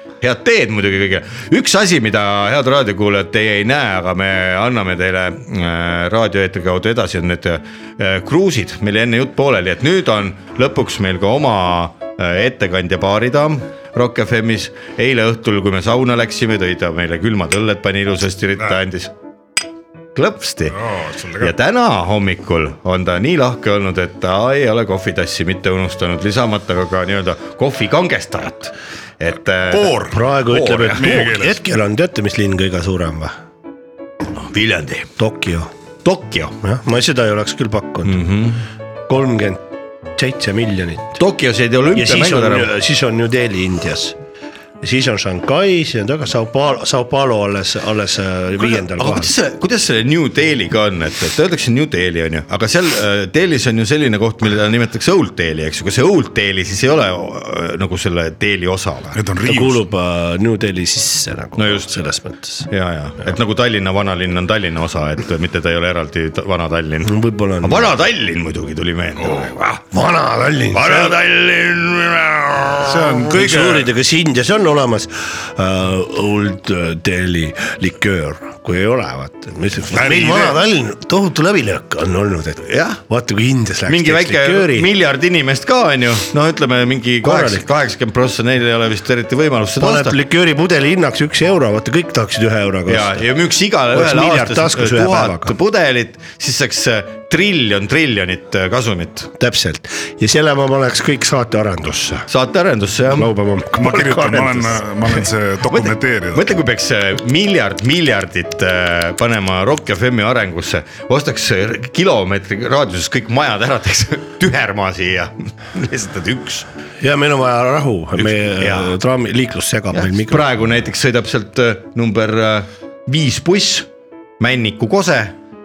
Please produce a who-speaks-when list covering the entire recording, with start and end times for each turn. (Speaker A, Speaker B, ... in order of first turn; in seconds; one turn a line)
Speaker A: 0.2-19.1
Speaker A: 20.1-20.8
Speaker B: 20.8-21.5
Speaker A: 21.4-31.3
Speaker B: 29.7-30.1
Speaker C: 30.0-33.4
Speaker B: 31.0-31.6
Speaker A: 34.3-35.1
Speaker C: 35.2-35.7
Speaker A: 36.0-36.6
Speaker C: 36.6-38.2
Speaker A: 38.0-38.6
Speaker C: 39.1-39.6
Speaker C: 40.1-41.2
Speaker A: 41.2-42.7
Speaker C: 41.9-44.2
Speaker C: 44.8-49.3
Speaker A: 48.6-59.2
Speaker B: 59.1-59.8
Speaker C: 59.4-62.7
Speaker A: 61.6-61.9
Speaker A: 62.7-69.8
Speaker C: 67.0-67.9
Speaker B: 69.2-69.5
Speaker C: 69.8-71.2
Speaker A: 70.7-72.9
Speaker B: 72.8-73.9
Speaker C: 73.0-84.9
Speaker B: 79.9-80.6
Speaker A: 82.6-83.0
Speaker A: 83.9-90.2
Speaker C: 87.2-87.6
Speaker C: 89.8-93.2
Speaker A: 92.9-99.3
Speaker C: 93.9-95.5
Speaker C: 99.4-102.3
Speaker A: 102.3-103.3
Speaker C: 103.1-105.0
Speaker B: 103.8-106.5
Speaker A: 105.7-116.7
Speaker C: 117.0-120.5
Speaker A: 118.2-118.9
Speaker A: 119.9-123.9
Speaker A: 124.4-125.3